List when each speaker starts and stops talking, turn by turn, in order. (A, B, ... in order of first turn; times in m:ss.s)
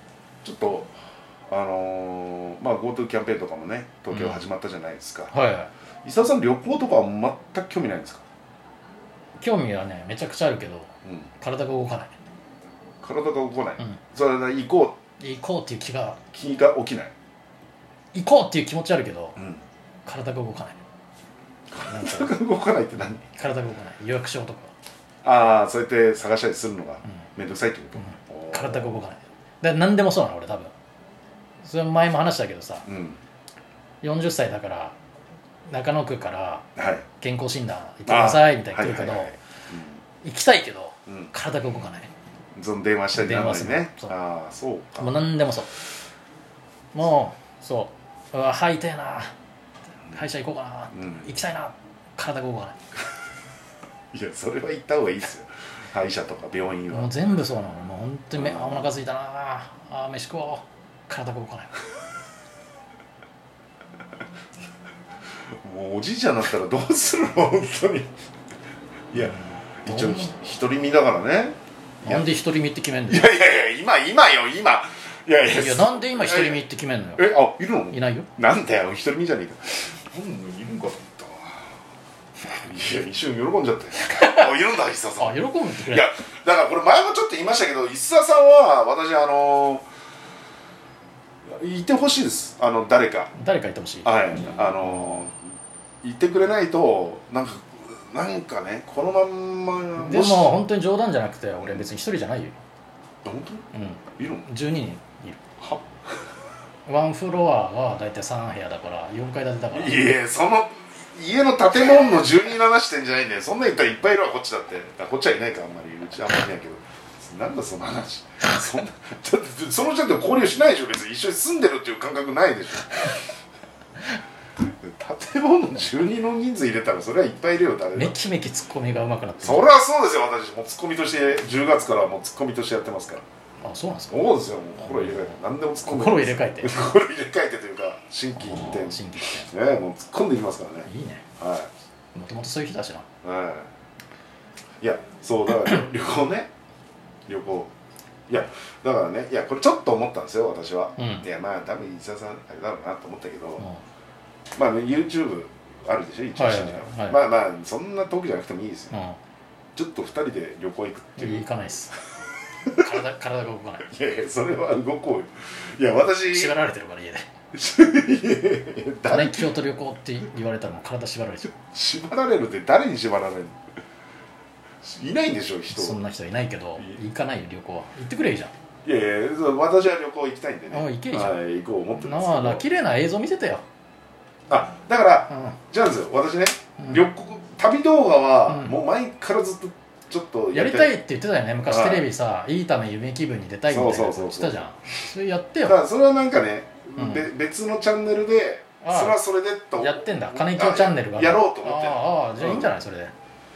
0:00.4-0:00.9 A
0:01.5-0:05.3 A
0:04.1-0:04.4 B
0:05.3-0:05.7 B
0:06.0-0:08.2 A
0:09.4-0:12.2 B
0:13.0-0:15.0 A
0:15.2-0:16.2 B
0:16.3-0:17.1 A
0:18.1-0:19.4 B
0:19.4-0:19.6 A
0:20.1-0:20.8 B
0:21.7-0:23.3 A
0:21.8-0:22.3 B
0:23.4-0:24.7 B
0:25.2-0:29.0 A
0:28.0-0:30.7 B
0:31.6-0:32.9 B
0:32.8-0:33.2 A
0:34.0-0:35.0 B
0:35.7-0:36.7 B
0:36.8-0:37.0 A
0:37.2-0:39.4 B
0:38.1-0:40.0 A
0:40.2-0:42.1 B
0:42.6-0:45.2 A
0:43.2-0:44.1 B
0:45.0-0:45.7 B
0:46.9-0:49.3 B
0:50.1-0:52.8 B
0:50.9-0:51.3 A
0:54.1-0:57.1 A
0:56.9-1:01.7 B
0:58.4-0:58.9 A
1:05.6-1:08.1 A
1:09.1-1:12.2 A
1:09.1-1:10.3 B
1:12.0-1:13.3 B
1:13.1-1:16.6 A
1:15.5-1:17.3 B
1:17.2-1:21.5 A
1:17.9-1:18.3 B
1:22.6-1:29.9 A
1:24.2-1:24.5 B
1:25.2-1:26.1 B
1:31.5-1:33.3 A
1:33.4-1:34.1 B
1:34.0-1:35.4 A
1:34.8-1:35.2 B
1:36.0-1:40.5 A
1:40.0-1:42.6 B
1:43.2-1:44.5 A
1:43.7-1:45.4 B
1:45.6-1:45.8 A
1:46.9-1:50.0 B
1:49.7-2:03.2 A
2:04.8-2:08.2 A
2:08.0-2:09.6 B
2:09.4-2:13.2 A
2:13.6-2:14.2 B
2:14.1-2:21.7 A
2:15.8-2:16.7 B
2:18.4-2:19.5 B
2:20.9-2:21.2 B
2:22.1-2:23.1 B
2:23.2-2:23.7 A
2:24.8-2:26.5 A
2:27.3-2:27.7 A
2:28.3-2:33.7 A
2:31.0-2:31.3 B
2:34.6-2:38.9 A
2:36.4-2:37.2 B
2:38.9-2:39.2 B
2:39.8-2:41.4 A
2:41.2-2:41.9 B
2:42.8-2:43.9 B
2:43.9-2:46.6 A
2:46.3-2:47.2 B
2:47.5-2:49.5 A
2:49.1-2:51.5 B
2:51.5-2:53.6 A
2:54.8-2:56.0 A
2:55.7-2:58.5 B
2:58.8-3:02.6 A
3:00.7-3:01.4 B
3:02.0-3:03.6 B
3:04.5-3:11.0 A
3:08.5-3:08.8 B
3:10.5-3:15.8 B
3:11.7-3:12.0 A
3:13.7-3:14.6 A
3:15.6-3:22.7 A
3:17.0-3:17.2 B
3:18.8-3:19.2 B
3:19.8-3:23.1 B